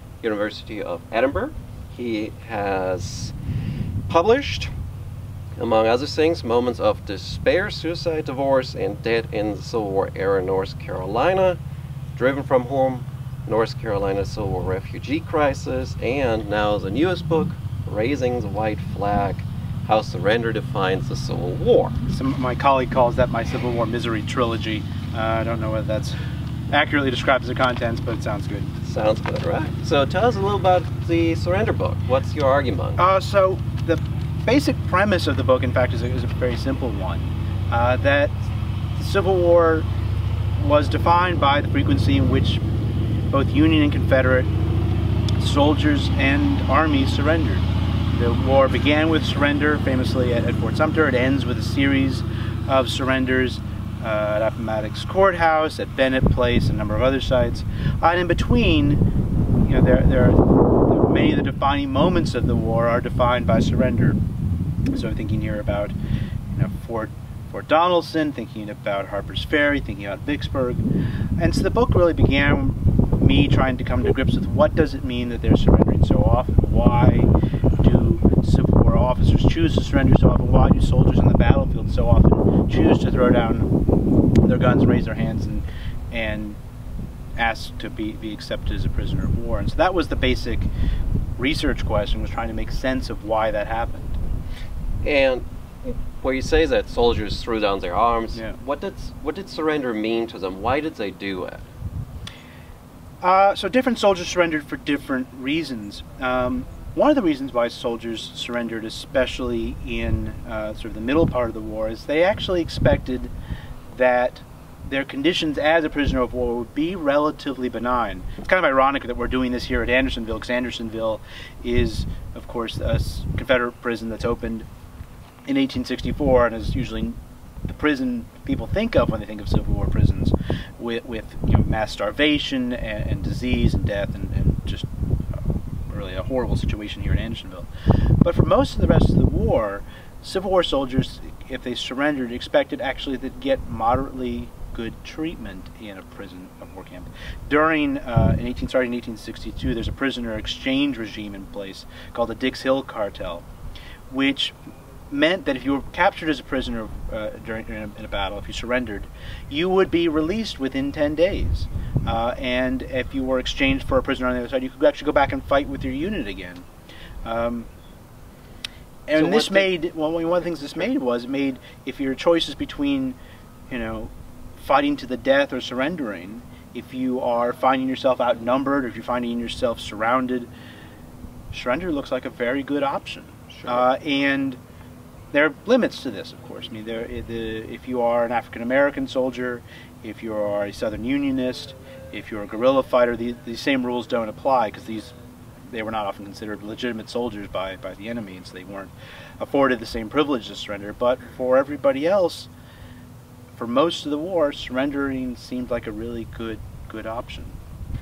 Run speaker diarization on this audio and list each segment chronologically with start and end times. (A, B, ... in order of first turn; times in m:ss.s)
0:00.2-0:03.3 A
0:04.1-0:04.7 A
0:05.6-0:11.6 A
0:12.2-0:22.0 A
0:22.1-0:26.2 B
0:26.7-0:28.7 B
0:28.8-0:33.0 A
0:33.0-0:38.4 B
0:39.0-0:39.9 B
0:40.6-0:42.6 B
0:43.3-0:44.5 B
0:45.4-0:59.0 B
0:59.6-1:04.2 B
1:04.9-1:06.0 B
1:06.5-1:10.8 B
1:11.4-1:23.7 B
1:24.4-1:26.6 B
1:27.4-1:30.7 B
1:31.4-1:34.2 B
1:35.0-1:41.6 A
1:43.2-1:53.3 B
1:53.9-2:04.7 B
2:05.5-2:07.2 B
2:07.7-2:14.9 B
2:15.9-2:17.7 B
2:18.2-2:33.5 B
2:34.1-2:34.6 B
2:35.1-2:46.7 B
2:47.2-2:47.7 B
2:49.1-2:53.2 B
2:49.2-2:49.7 A
2:53.7-3:00.5 B
3:01.5-3:04.6 B
3:03.5-3:03.9 A
3:05.3-3:15.1 B
3:15.7-3:22.5 B
3:23.6-3:27.6 B